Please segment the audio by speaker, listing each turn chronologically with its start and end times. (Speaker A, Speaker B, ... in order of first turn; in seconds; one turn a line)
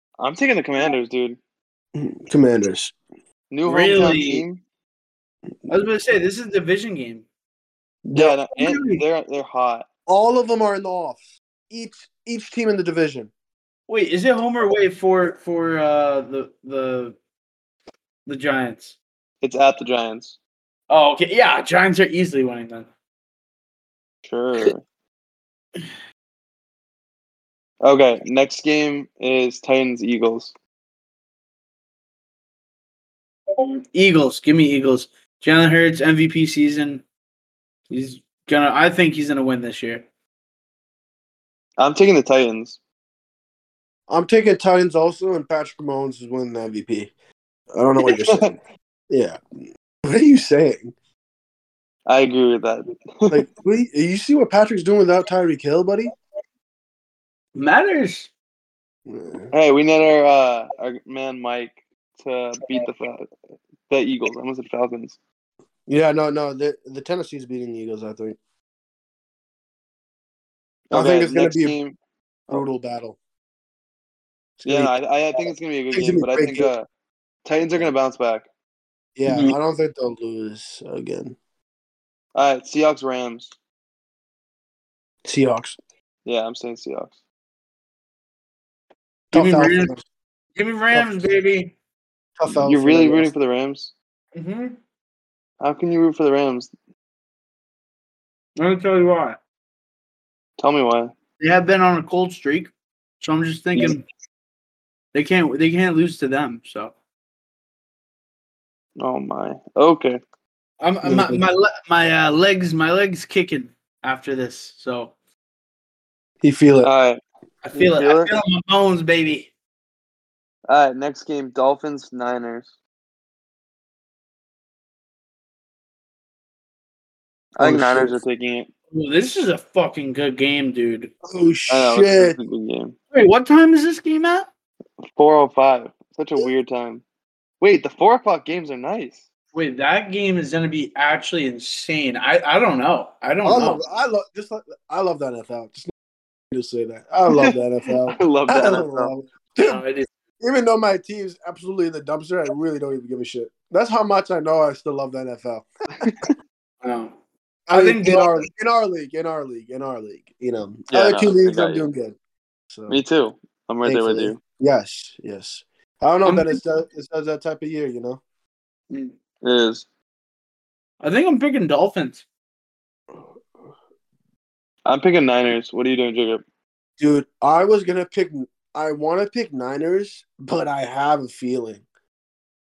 Speaker A: 0.2-1.4
Speaker B: 1.9-2.9
Speaker A: 3.5-4.6
Speaker C: 3.6-4.4
Speaker C: 5.7-7.2
Speaker B: 8.1-8.3
Speaker A: 8.1-9.9
Speaker C: 8.6-9.0
Speaker B: 10.1-13.3
Speaker C: 13.9-17.1
Speaker C: 18.2-18.9
Speaker A: 19.4-20.4
Speaker C: 20.9-22.9
Speaker A: 24.2-24.8
Speaker A: 27.8-30.5
Speaker C: 33.6-37.0
Speaker C: 37.9-40.0
Speaker A: 41.8-42.8
Speaker B: 44.1-47.1
Speaker B: 47.7-48.5
Speaker A: 48.0-48.5
Speaker B: 49.1-49.4
Speaker B: 50.0-50.9
Speaker A: 52.0-53.5
Speaker B: 53.3-56.1
Speaker C: 57.5-58.3
Speaker B: 59.1-59.5
Speaker A: 59.5-63.3
Speaker A: 63.9-65.2
Speaker B: 65.9-68.4
Speaker A: 70.9-72.0
Speaker B: 70.9-71.8
Speaker B: 72.5-73.2
Speaker B: 74.6-74.9
Speaker A: 74.6-76.8
Speaker B: 75.9-76.7
Speaker A: 77.4-78.5
Speaker B: 79.2-81.3
Speaker C: 79.3-79.5
Speaker A: 82.3-83.5
Speaker B: 85.2-85.8
Speaker A: 86.2-87.1
Speaker B: 89.3-90.0
Speaker C: 89.3-89.9
Speaker C: 90.5-91.7
Speaker B: 92.4-93.3
Speaker A: 92.5-93.9
Speaker C: 94.3-94.8
Speaker A: 95.6-96.7
Speaker C: 98.6-99.4
Speaker A: 100.6-101.1
Speaker C: 101.4-104.0
Speaker C: 105.1-106.9
Speaker A: 109.0-110.2
Speaker C: 110.8-115.1
Speaker B: 111.0-111.4
Speaker B: 116.4-116.9
Speaker A: 116.8-117.2
Speaker C: 117.6-119.5
Speaker A: 117.7-118.3
Speaker A: 120.7-122.7
Speaker A: 127.5-128.7
Speaker B: 127.6-128.2
Speaker C: 128.9-131.1
Speaker B: 131.2-132.4
Speaker A: 131.7-132.9
Speaker C: 133.1-134.5
Speaker A: 135.1-137.0
Speaker A: 137.6-139.2
Speaker C: 139.5-143.8
Speaker B: 143.4-145.9
Speaker B: 146.5-149.8
Speaker A: 147.3-149.1
Speaker C: 149.6-150.1
Speaker B: 150.4-155.7
Speaker A: 156.0-156.3
Speaker C: 156.8-157.1
Speaker B: 157.7-162.2
Speaker C: 157.7-158.4
Speaker A: 160.9-161.9
Speaker B: 162.7-163.0
Speaker A: 162.9-164.4
Speaker B: 163.8-168.2
Speaker C: 166.2-166.6
Speaker C: 168.9-169.1
Speaker A: 169.4-169.8
Speaker C: 171.0-172.2
Speaker A: 174.8-176.4
Speaker B: 177.0-181.8